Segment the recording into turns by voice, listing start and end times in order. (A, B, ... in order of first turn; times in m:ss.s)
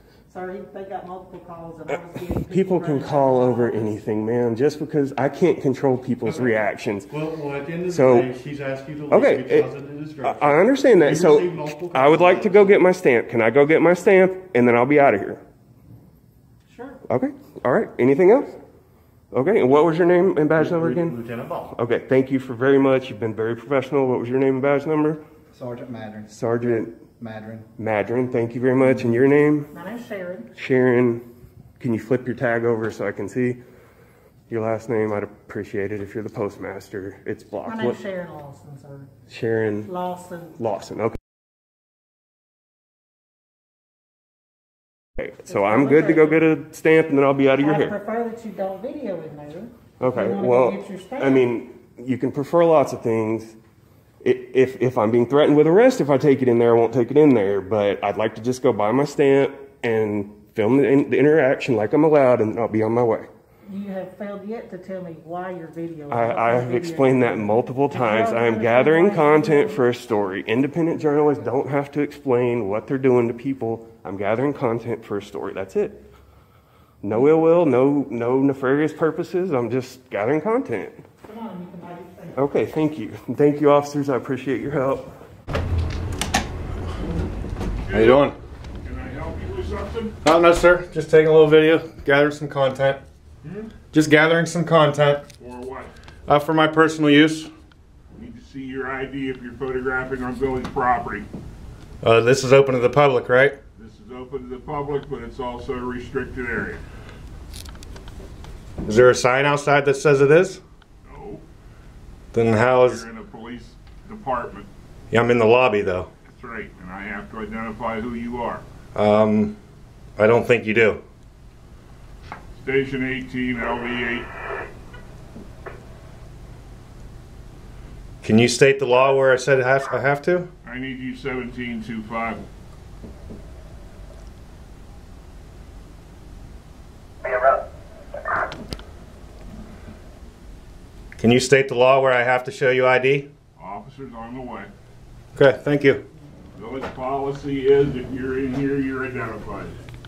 0:00.3-0:04.0 A
0:02.5-0:07.1 B
0:06.3-0:12.8 C
0:07.9-0:08.3 B
0:09.1-0:15.4 B
0:16.7-0:17.0 A
0:17.1-0:18.6 B
0:19.3-0:21.2 B
0:20.6-0:21.8 C
0:21.7-0:25.2 B
0:25.5-0:27.7 D
0:26.3-0:27.0 B
0:27.8-0:29.7 B
0:29.7-0:30.5 A
0:30.5-0:31.3 B
0:31.8-0:33.6 B
0:34.5-0:38.0 B
0:37.6-0:39.1 A
0:39.3-0:39.9 B
0:39.9-0:40.5 A
0:40.6-0:41.2 B
0:45.2-0:48.0 B
0:45.5-0:46.5 A
0:47.6-0:51.5 A
0:50.0-0:53.6 B
0:54.2-1:03.3 B
1:03.6-1:09.8 A
1:06.1-1:16.1 B
1:17.0-1:21.0 B
1:21.2-1:22.4 A
1:22.4-1:25.2 B
1:27.9-1:28.3 E
1:27.9-1:28.4 F
1:28.8-1:30.2 E
1:30.2-1:33.0 F
1:33.9-1:35.2 F
1:35.4-1:35.9 E
1:36.3-1:37.5 F
1:38.2-1:41.3 E
1:42.0-1:43.6 F
1:43.8-1:46.8 E
1:48.8-1:50.6 F
1:51.0-1:51.4 E
1:52.3-1:53.1 F
1:52.7-1:54.7 E
1:55.1-1:56.1 F
1:56.3-1:58.6 E
1:58.9-1:59.6 F
2:00.2-2:01.0 F
2:02.6-2:04.3 E
2:08.2-2:10.5 F
2:10.6-2:12.5 E
2:21.2-2:23.3 F
2:23.6-2:24.7 E
2:25.4-2:26.0 F
2:26.6-2:29.8 E